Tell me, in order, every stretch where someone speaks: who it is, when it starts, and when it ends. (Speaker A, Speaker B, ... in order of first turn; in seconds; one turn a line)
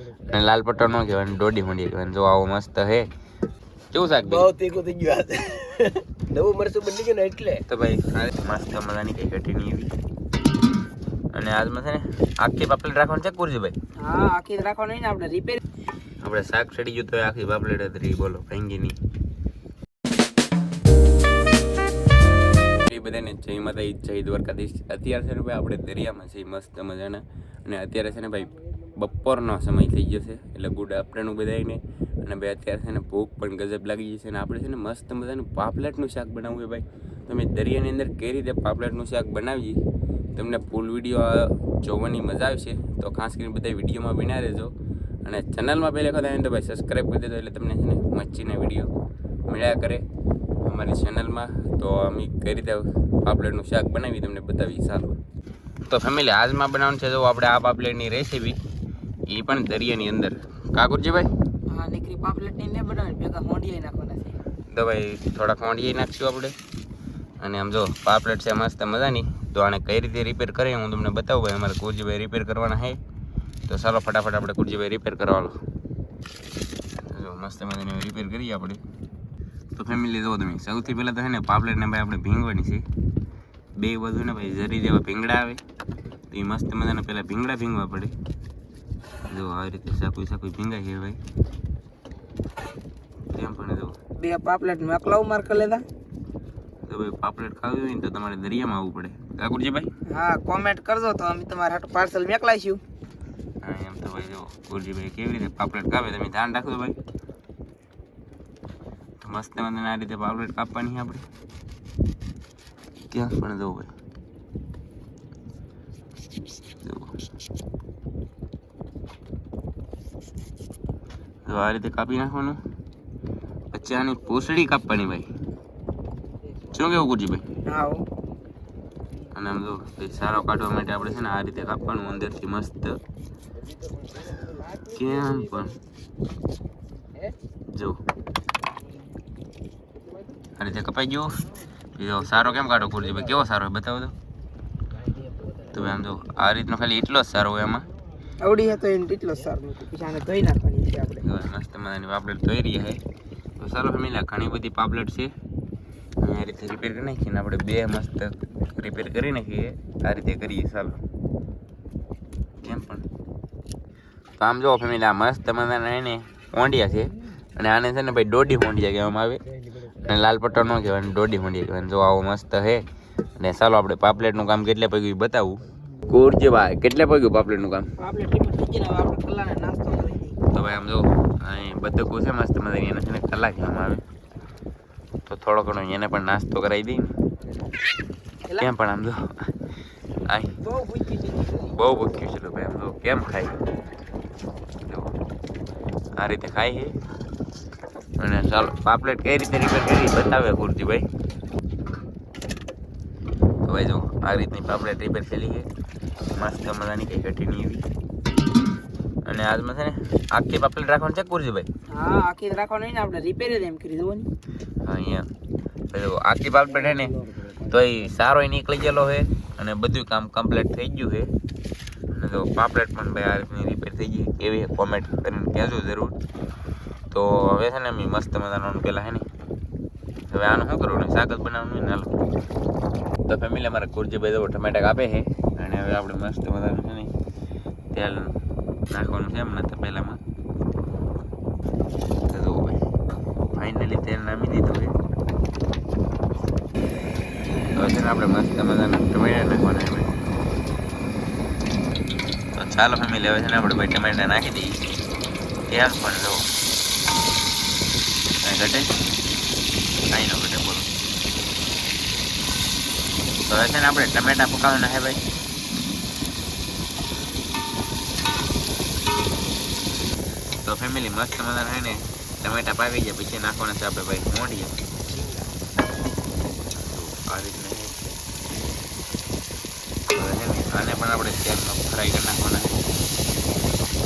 Speaker A: 0.2-3.1
Speaker A: 3.9-4.5
Speaker B: 4.2-7.6
Speaker A: 7.7-9.9
Speaker A: 11.3-13.7
Speaker C: 14.0-15.6
Speaker A: 16.2-19.0
Speaker A: 22.8-39.8
Speaker A: 40.3-44.7
Speaker A: 45.2-48.9
Speaker A: 49.5-50.0
Speaker A: 50.6-55.2
Speaker A: 55.9-58.6
Speaker A: 59.3-61.3
Speaker C: 61.7-64.4
Speaker A: 64.7-66.5
Speaker A: 67.4-73.0
Speaker A: 73.7-75.6
Speaker A: 77.0-78.8
Speaker A: 79.7-82.8
Speaker A: 83.8-85.6
Speaker A: 86.3-88.2
Speaker A: 89.3-91.2
Speaker A: 93.3-94.0
Speaker C: 94.2-95.8
Speaker A: 96.8-99.9
Speaker C: 100.1-102.8
Speaker A: 103.6-107.0
Speaker A: 109.2-111.2
Speaker A: 113.1-113.9
Speaker A: 116.8-117.1
Speaker A: 121.4-122.6
Speaker A: 123.7-125.3
Speaker A: 126.7-127.5
Speaker C: 127.6-128.1
Speaker A: 129.3-133.0
Speaker B: 133.9-135.3
Speaker A: 134.8-135.8
Speaker A: 137.7-138.0
Speaker A: 140.6-144.1
Speaker A: 145.7-147.9
Speaker C: 148.4-151.2
Speaker A: 151.2-153.0
Speaker A: 153.6-155.3
Speaker A: 156.2-161.0
Speaker A: 162.6-163.0
Speaker A: 164.4-172.8
Speaker A: 173.4-177.9
Speaker C: 178.0-180.4
Speaker A: 180.5-184.0
Speaker A: 185.2-187.1
Speaker A: 188.6-189.5
Speaker A: 190.2-190.6
Speaker C: 190.8-191.2
Speaker A: 191.5-193.6
Speaker A: 194.8-195.1
Speaker A: 196.2-197.0
Speaker A: 198.2-201.1
Speaker A: 203.6-205.7
Speaker A: 206.3-207.8
Speaker A: 209.2-211.7
Speaker C: 211.9-214.3
Speaker A: 214.8-215.3
Speaker A: 215.9-221.3
Speaker A: 222.1-226.2
Speaker A: 227.1-229.3
Speaker A: 230.3-232.1
Speaker A: 233.2-237.1
Speaker A: 237.9-238.4
Speaker A: 238.9-240.2
Speaker A: 242.2-242.8
Speaker A: 243.5-244.9
Speaker A: 247.7-250.1
Speaker A: 252.5-254.8
Speaker A: 255.7-256.4
Speaker A: 258.4-258.9
Speaker A: 260.1-260.9
Speaker A: 263.4-265.2
Speaker A: 270.6-274.8
Speaker B: 275.1-275.5
Speaker A: 276.7-278.1
Speaker A: 280.1-282.9